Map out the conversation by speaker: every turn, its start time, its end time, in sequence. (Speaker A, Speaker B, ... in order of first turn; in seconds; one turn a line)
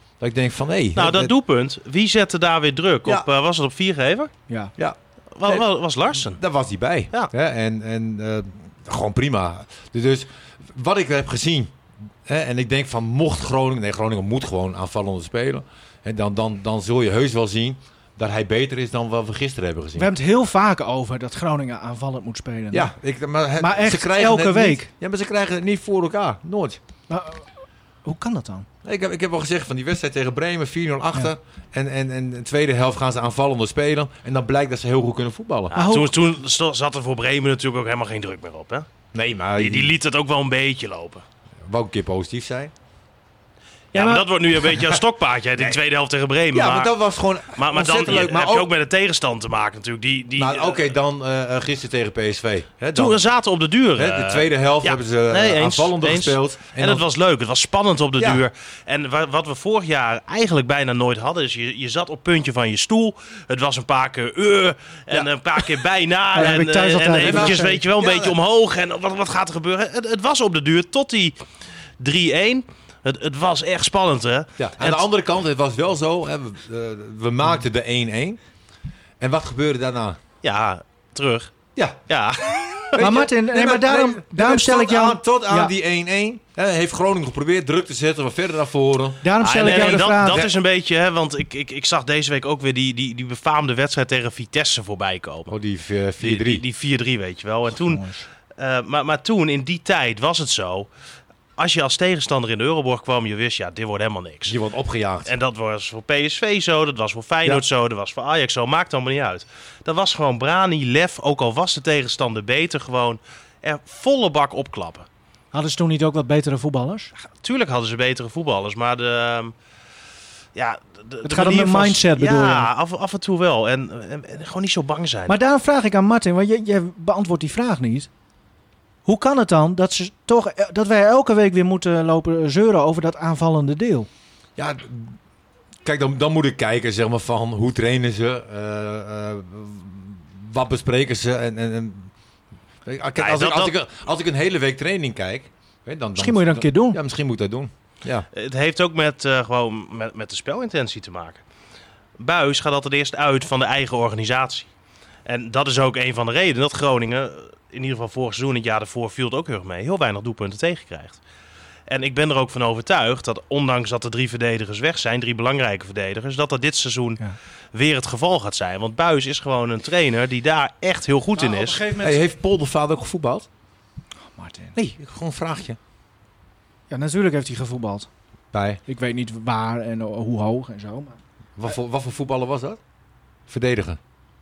Speaker A: 0.2-1.3
Speaker B: 1.0-4.3
Speaker A: 4.8-11.7
Speaker B: 5.4-6.4
Speaker A: 12.3-20.1
Speaker C: 20.0-22.9
Speaker A: 22.7-26.8
Speaker C: 23.6-24.9
Speaker C: 27.1-27.4
Speaker C: 28.1-28.7
Speaker A: 28.8-35.8
Speaker C: 35.7-36.1
Speaker B: 35.7-38.9
Speaker A: 39.1-39.9
Speaker B: 39.6-41.2
Speaker A: 41.7-42.7
Speaker B: 43.9-46.9
Speaker C: 44.0-44.3
Speaker A: 46.5-48.7
Speaker B: 47.6-50.8
Speaker A: 50.4-53.2
Speaker B: 53.0-71.4
Speaker A: 54.0-57.0
Speaker A: 58.2-58.4
Speaker C: 66.3-67.8
Speaker A: 67.2-68.3
Speaker B: 72.0-75.1
Speaker A: 74.6-78.4
Speaker A: 79.2-80.2
Speaker B: 80.4-81.5
Speaker B: 82.1-83.0
Speaker A: 82.9-90.5
Speaker C: 83.0-85.7
Speaker C: 89.2-90.4
Speaker B: 89.4-95.5
Speaker A: 95.5-96.6
Speaker B: 96.2-100.9
Speaker C: 97.8-98.2
Speaker B: 101.6-104.6
Speaker A: 104.5-105.3
Speaker B: 105.3-115.1
Speaker C: 115.5-117.1
Speaker B: 117.2-119.5
Speaker B: 120.5-125.3
Speaker C: 121.2-122.7
Speaker C: 125.3-128.1
Speaker C: 129.1-134.1
Speaker A: 134.6-135.2
Speaker A: 135.8-142.1
Speaker A: 142.9-148.3
Speaker B: 143.2-143.7
Speaker C: 146.2-147.0
Speaker B: 148.3-151.4
Speaker B: 152.2-154.7
Speaker B: 155.3-161.2
Speaker B: 161.9-167.2
Speaker B: 167.7-171.8
Speaker C: 171.4-172.2
Speaker A: 172.0-173.5
Speaker C: 174.3-174.8
Speaker A: 174.8-175.8
Speaker C: 176.9-178.1
Speaker A: 178.5-178.8
Speaker C: 178.9-181.2
Speaker A: 181.6-182.8
Speaker A: 183.5-184.0